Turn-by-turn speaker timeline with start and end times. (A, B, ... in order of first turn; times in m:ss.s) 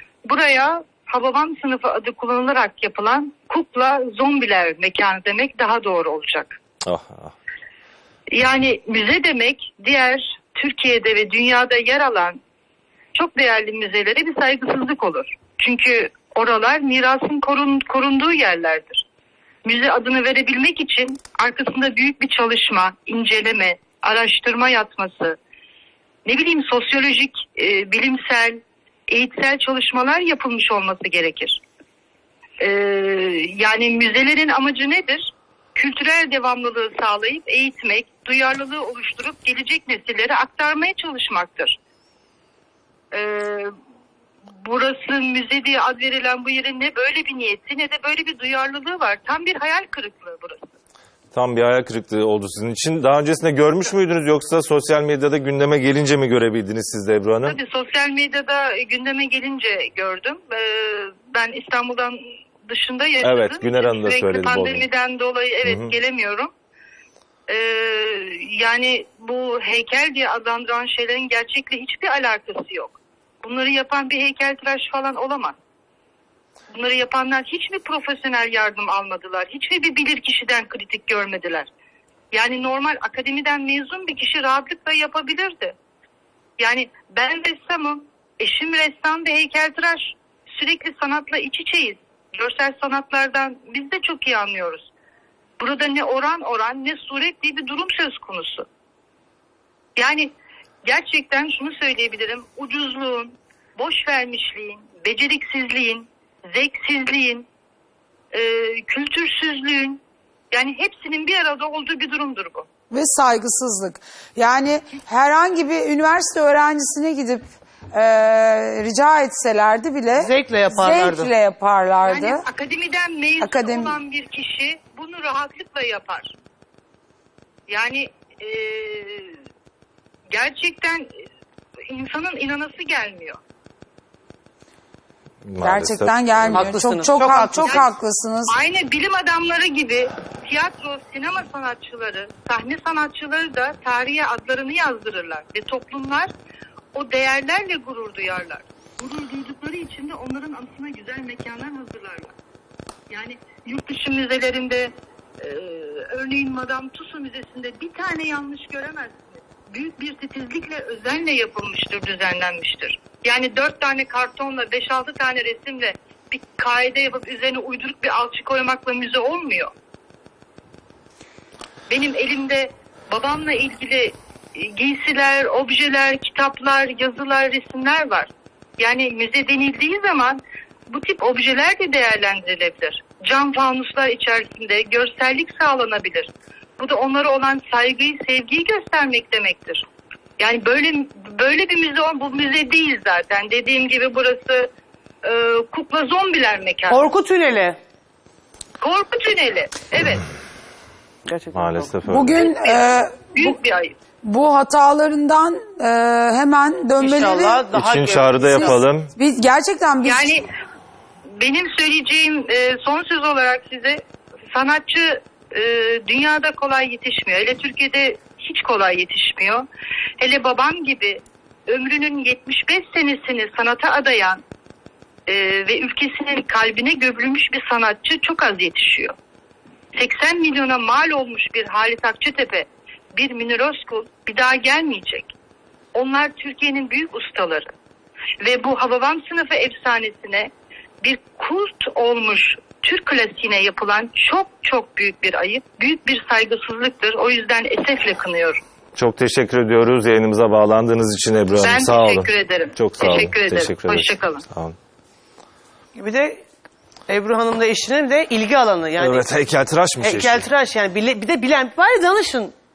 0:00.2-0:06.6 A
0:06.8-0:07.3 B
0:08.3-0:12.4 A
0:13.1-0:19.0 A
0:19.6-0:25.4 A
0:26.2-0:31.6 A
0:32.6-0:41.8 A
0:43.1-0:43.7 A
0:44.6-0:50.7 A
0:51.3-0:57.6 B
0:57.4-1:06.5 A
1:03.2-1:04.8 B
1:05.6-1:05.9 B
1:07.5-1:15.6 A
1:16.7-1:21.7 A
1:22.3-1:25.8 A
1:26.6-1:34.9 A
1:35.6-1:38.7 A
1:40.0-1:40.3 A
1:40.8-1:47.5 A
1:48.3-1:52.7 A
1:52.9-2:02.4 C
2:00.1-2:01.3 D
2:02.0-2:06.3 A
2:03.4-2:04.0 C
2:07.7-2:09.4 A
2:10.3-2:11.1 A
2:11.9-2:13.4 A
2:15.4-2:16.6 B
2:15.6-2:18.6 C
2:16.4-2:17.8 D
2:17.6-2:17.9 A
2:18.5-2:26.3 A
2:26.9-2:32.3 A
2:33.1-2:49.7 A
2:51.9-3:09.8 A
3:10.4-3:14.7 A
3:15.2-3:17.0 A
3:16.9-3:17.8 D
3:18.8-3:20.2 A
3:21.2-3:22.0 D
3:21.5-3:22.5 B
3:22.1-3:23.5 C
3:22.5-3:23.9 A
3:24.2-3:27.7 C
3:27.0-3:28.8 D
3:27.7-3:29.1 B
3:28.5-3:30.3 C
3:30.0-3:30.5 A
3:31.4-3:39.6 A
3:40.2-3:44.4 A
3:45.3-3:49.2 A
3:49.9-3:55.3 A
3:55.9-3:57.7 A
3:58.4-4:08.6 A
4:08.9-4:14.8 B
4:11.5-4:14.4 A
4:16.0-4:16.4 D
4:17.1-4:19.3 D
4:19.0-4:20.5 B
4:20.0-4:22.5 D